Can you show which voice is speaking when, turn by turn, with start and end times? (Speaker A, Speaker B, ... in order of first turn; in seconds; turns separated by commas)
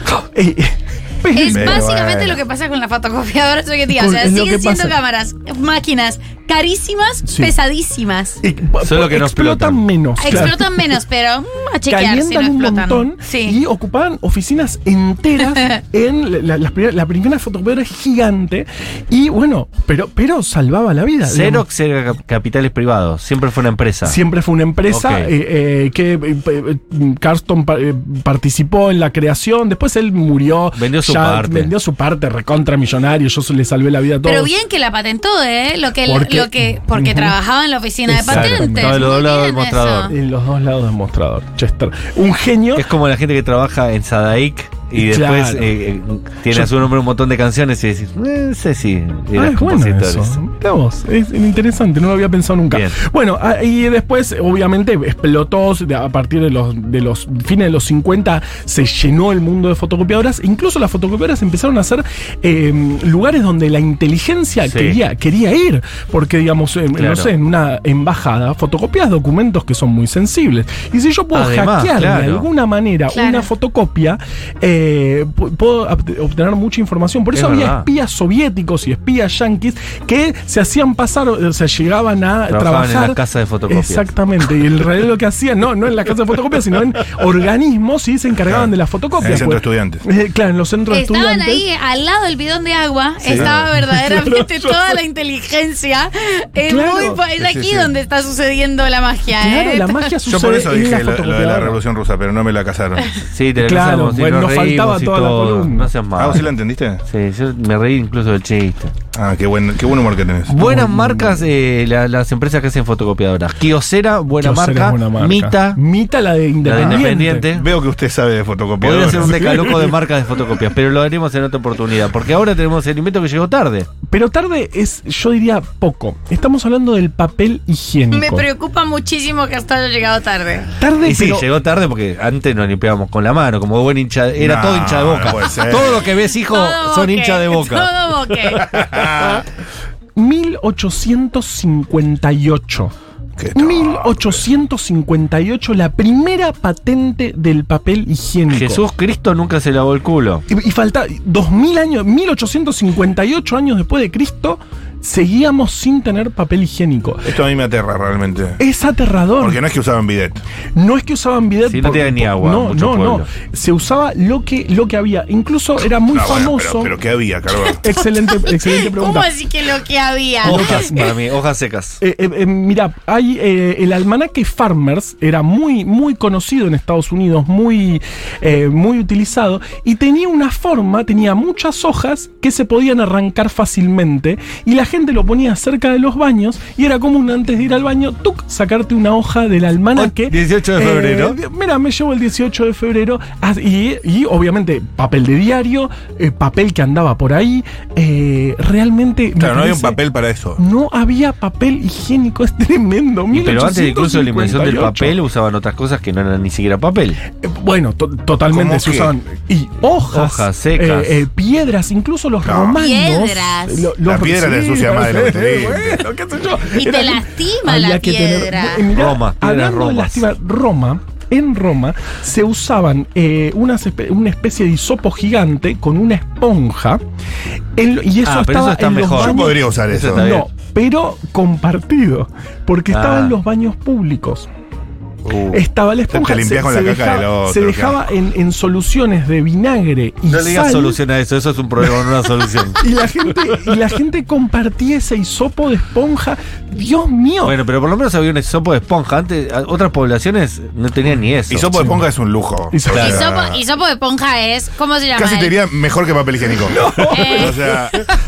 Speaker A: 0.3-1.8, Speaker B: 1.3-8.4, Speaker C: 1.5-2.4, Speaker A: 3.9-5.0, Speaker A: 7.2-7.6, Speaker A: 8.4-11.0, Speaker D: 8.8-10.5, Speaker B: 10.2-13.6, Speaker A: 11.9-21.6, Speaker D: 21.2-24.2, Speaker A: 24.0-34.5, Speaker D: 24.9-25.3, Speaker D: 30.7-31.7, Speaker B: 34.2-40.1, Speaker A: 36.0-37.4, Speaker A: 38.0-39.1, Speaker D: 38.3-40.1, Speaker A: 40.1-42.9, Speaker D: 42.7-50.4, Speaker A: 44.9-45.8, Speaker A: 46.5-46.8, Speaker A: 49.3-91.6, Speaker D: 52.7-53.0, Speaker D: 64.6-65.0, Speaker D: 66.9-67.3, Speaker D: 71.3-72.5, Speaker B: 73.1-73.5, Speaker D: 77.3-77.9, Speaker D: 82.5-84.1, Speaker C: 88.5-90.0, Speaker B: 90.9-100.1, Speaker D: 93.2-93.6, Speaker C: 93.3-93.6, Speaker A: 93.8-95.0, Speaker A: 96.6-97.2, Speaker C: 97.4-97.9, Speaker A: 99.3-101.8, Speaker C: 100.2-103.1, Speaker D: 103.3-106.5, Speaker A: 103.6-105.9, Speaker C: 106.2-107.0, Speaker D: 107.0-108.9, Speaker C: 109.1-110.6, Speaker D: 110.5-115.8, Speaker A: 110.6-111.5, Speaker A: 114.4-117.5, Speaker D: 116.6-117.7, Speaker C: 116.7-119.8, Speaker D: 118.8-123.9, Speaker A: 119.2-119.9, Speaker A: 124.1-128.5, Speaker B: 128.1-130.7, Speaker A: 130.8-131.5, Speaker D: 131.0-137.9, Speaker C: 134.3-136.1, Speaker B: 136.4-138.8, Speaker C: 138.6-139.4, Speaker A: 140.2-142.9, Speaker C: 143.4-144.4, Speaker A: 143.5-148.8, Speaker D: 148.5-150.4, Speaker A: 150.5-157.3, Speaker C: 157.2-158.6, Speaker A: 158.6-159.6, Speaker C: 159.4-160.4, Speaker A: 160.7-167.0, Speaker D: 161.6-163.3, Speaker C: 166.1-167.8, Speaker B: 167.5-171.1, Speaker A: 167.8-169.3, Speaker A: 170.4-171.2, Speaker D: 170.4-172.0, Speaker A: 172.0-200.0, Speaker D: 189.9-191.4, Speaker C: 199.4-200.6, Speaker A: 200.6-205.2, Speaker D: 203.3-207.2, Speaker A: 207.4-227.0, Speaker C: 208.5-209.1, Speaker D: 210.1-211.2, Speaker C: 212.4-212.8, Speaker B: 212.7-213.9, Speaker C: 214.0-216.1, Speaker B: 216.7-218.9, Speaker D: 218.9-220.3, Speaker A: 227.8-234.5, Speaker D: 228.2-230.4, Speaker C: 229.2-230.4, Speaker D: 232.9-233.4, Speaker D: 235.2-235.6, Speaker A: 235.5-241.0, Speaker C: 236.1-238.0, Speaker D: 240.3-242.8, Speaker A: 242.8-247.6, Speaker D: 247.4-251.7, Speaker C: 251.5-253.6, Speaker A: 251.7-252.0, Speaker A: 252.7-253.2, Speaker D: 252.9-253.2, Speaker B: 252.9-255.6, Speaker C: 255.1-258.0, Speaker A: 256.6-257.9, Speaker B: 257.1-258.1